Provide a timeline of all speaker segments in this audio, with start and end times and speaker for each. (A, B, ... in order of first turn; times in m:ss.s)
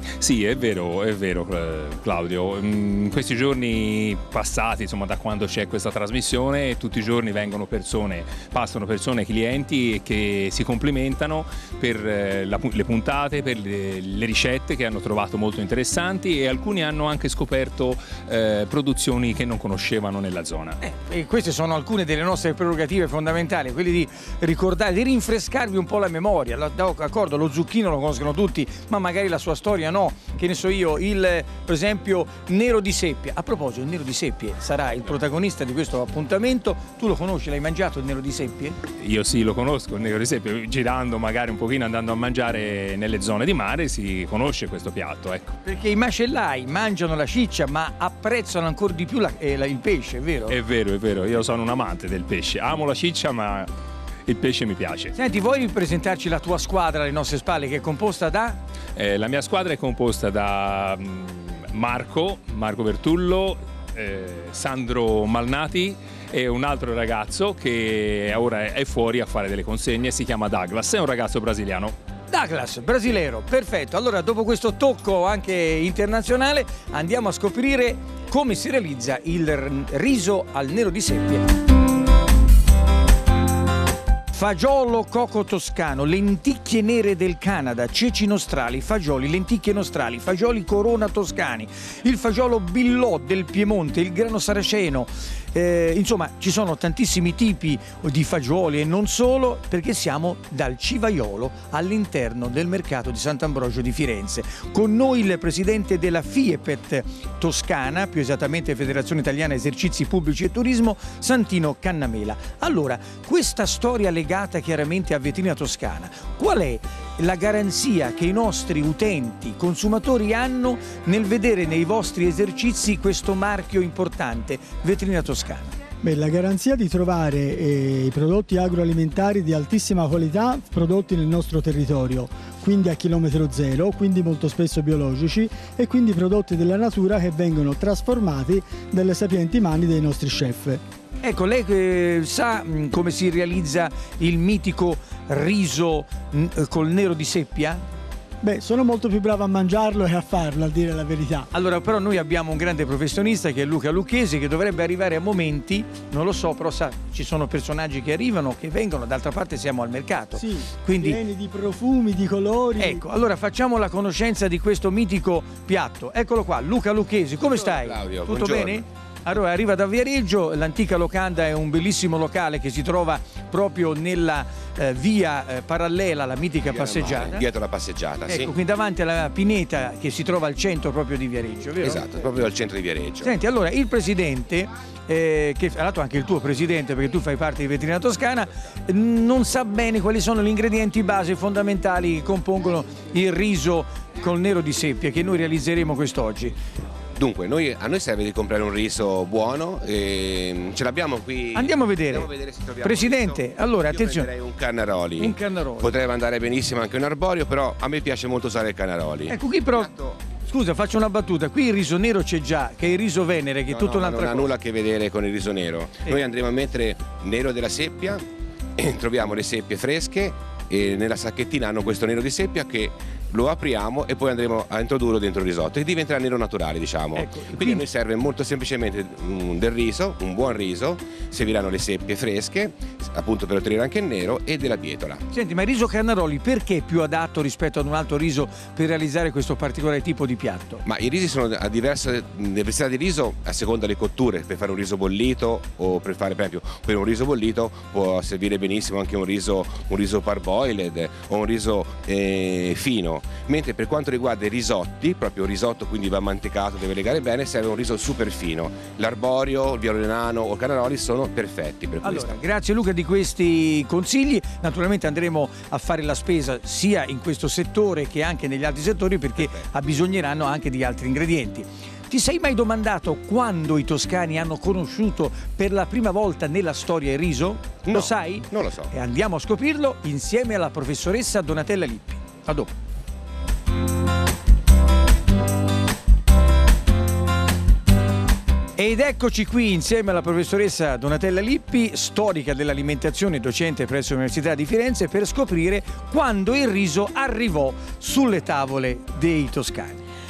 0:00.2-0:20.8 A
0:20.8-0:38.8 B
0:39.0-0:45.5 A
0:45.6-0:50.5 B
0:50.5-0:53.7 A
0:54.3-0:55.1 A
0:55.1-0:58.6 B
0:59.0-1:12.0 A
1:12.3-1:21.4 B
1:24.3-2:05.8 B
2:06.0-2:20.8 C
2:21.2-2:27.8 B
2:28.4-2:31.5 C
2:31.5-2:41.2 B
2:40.4-2:43.0 C
2:42.8-2:57.4 B
2:47.6-2:48.8 D
2:56.7-2:58.5 D
2:58.3-3:02.0 B
3:01.8-3:03.3 D
3:03.2-3:16.6 B
3:17.2-3:30.2 D
3:21.5-3:22.3 B
3:22.8-3:24.3 B
3:25.2-3:26.0 B
3:29.3-3:29.9 B
3:30.4-3:34.5 B
3:33.7-3:38.2 D
3:38.8-3:55.2 D
3:47.2-3:47.9 B
3:55.3-4:00.8 B
4:00.8-4:22.4 D
4:22.0-4:42.7 B
4:29.4-4:29.7 D
4:37.9-4:38.9 D
4:48.8-5:00.0 B